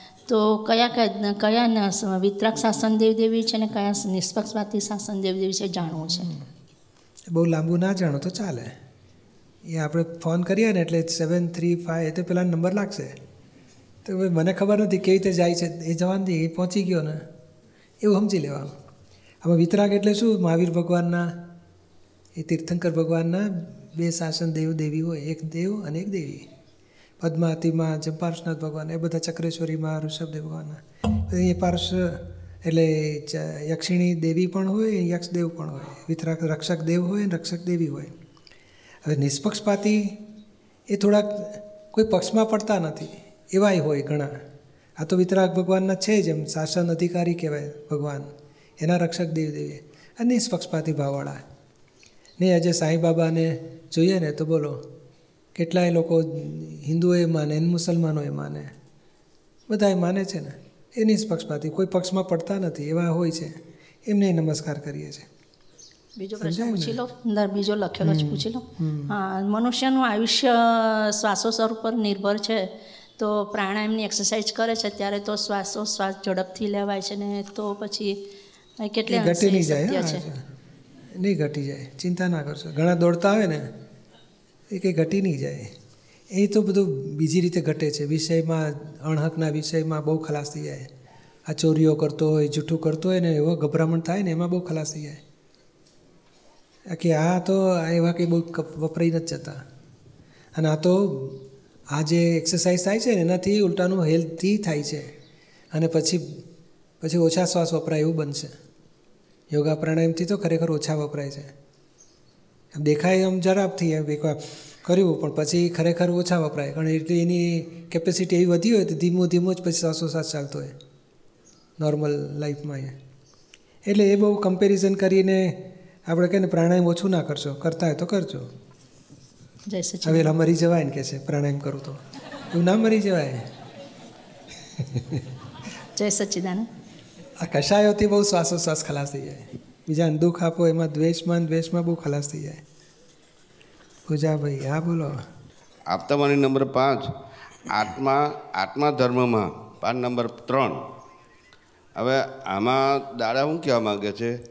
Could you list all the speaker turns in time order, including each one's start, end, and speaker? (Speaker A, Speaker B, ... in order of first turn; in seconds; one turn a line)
Speaker A: 0.3-6.3
Speaker B: 6.0-6.4
Speaker B: 7.3-8.7
Speaker B: 9.7-13.1
Speaker B: 14.1-17.2
Speaker B: 18.0-18.7
Speaker B: 19.4-21.3
Speaker B: 22.4-26.5
Speaker B: 27.2-38.1
Speaker B: 39.0-40.2
Speaker B: 40.9-44.3
Speaker B: 45.0-48.3
Speaker B: 48.8-51.4
Speaker B: 52.4-54.8
Speaker B: 55.5-58.7
Speaker B: 59.7-65.3
Speaker A: 66.2-78.2
Speaker B: 66.4-67.0
Speaker B: 68.0-69.1
Speaker A: 78.8-80.2
Speaker B: 79.1-80.4
Speaker B: 81.2-83.7
Speaker B: 84.7-85.7
Speaker B: 86.3-90.9
Speaker B: 91.5-95.2
Speaker B: 96.9-99.6
Speaker B: 100.5-105.1
Speaker B: 105.7-106.2
Speaker B: 107.0-108.5
Speaker B: 109.5-111.5
Speaker B: 112.7-120.7
Speaker B: 121.8-122.9
Speaker B: 123.9-128.5
Speaker A: 129.7-130.3
Speaker B: 130.0-132.0
Speaker B: 132.5-133.4
Speaker B: 134.8-135.2
Speaker A: 135.9-136.7
Speaker B: 137.4-142.6
Speaker B: 144.1-145.2
Speaker C: 145.9-147.1
Speaker C: 147.7-150.8
Speaker C: 151.9-154.3